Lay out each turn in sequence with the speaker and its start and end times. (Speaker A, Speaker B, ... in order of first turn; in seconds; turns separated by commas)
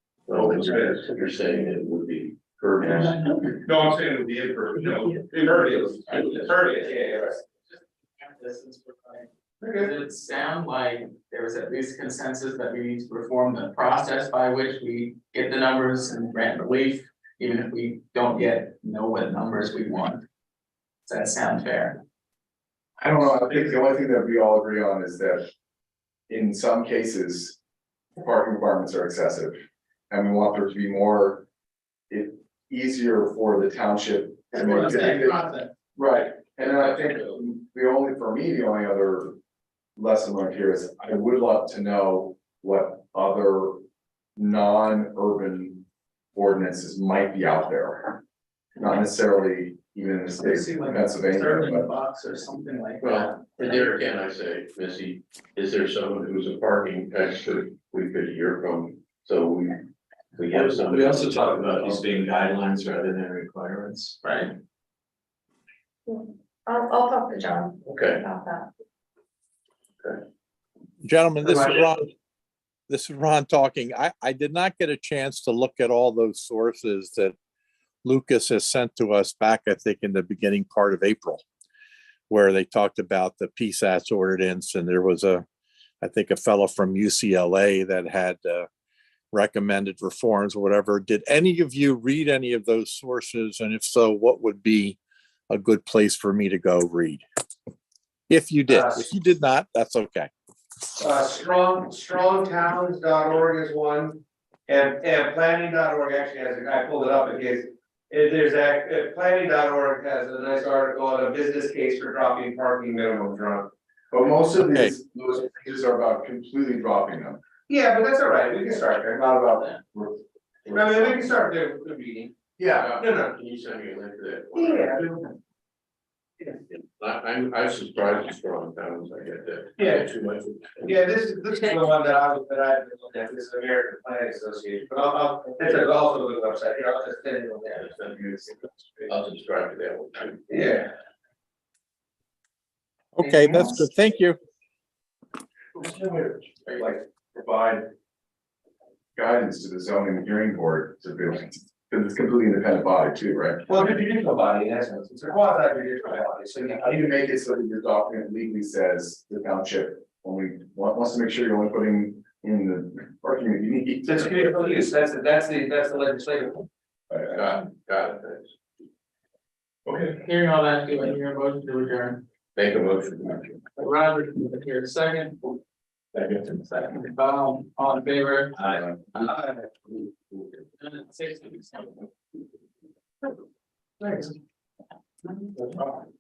Speaker A: 0.3-3.5, Speaker B: 0.3-1.0, Speaker B: 3.6-6.9, Speaker C: 5.3-5.7, Speaker D: 6.1-20.2, Speaker C: 6.8-7.3, Speaker C: 9.6-9.9, Speaker D: 21.1-22.0, Speaker E: 23.0-25.5, Speaker E: 26.3-27.6, Speaker E: 28.1-29.6, Speaker E: 30.1-31.4, Speaker E: 32.1-35.4, Speaker D: 34.5-35.7, Speaker E: 36.0-39.4, Speaker E: 40.0-43.8, Speaker E: 44.4-48.2, Speaker E: 48.8-51.9, Speaker D: 50.4-54.0, Speaker A: 53.0-59.8, Speaker A: 60.4-62.3, Speaker F: 60.5-64.2, Speaker D: 64.2-64.5, Speaker G: 66.1-68.7, Speaker A: 67.9-68.2, Speaker H: 71.0-72.1, Speaker H: 72.9-77.4, Speaker H: 78.0-81.4, Speaker H: 82.3-85.5, Speaker H: 86.0-88.7, Speaker H: 89.3-95.0, Speaker H: 95.5-97.2, Speaker H: 98.3-100.3, Speaker C: 98.7-99.0, Speaker C: 101.0-113.7, Speaker E: 114.1-117.4, Speaker C: 117.7-120.1, Speaker C: 120.7-122.3, Speaker E: 122.6-122.9, Speaker A: 122.8-124.9, Speaker C: 123.0-123.3, Speaker C: 124.5-125.3, Speaker A: 126.7-130.7, Speaker C: 129.8-130.1, Speaker C: 130.8-138.4, Speaker A: 137.8-138.4, Speaker A: 139.1-140.4, Speaker C: 140.5-140.9, Speaker H: 143.2-144.4, Speaker D: 143.2-143.8, Speaker B: 145.8-146.9, Speaker E: 149.2-153.7, Speaker C: 153.7-156.9, Speaker E: 156.6-164.4, Speaker C: 164.1-166.7, Speaker A: 167.2-168.5, Speaker D: 170.1-172.2, Speaker A: 172.6-173.6, Speaker D: 173.8-175.4, Speaker D: 176.4-179.3, Speaker C: 179.2-179.6, Speaker D: 180.8-182.0, Speaker C: 184.0-184.3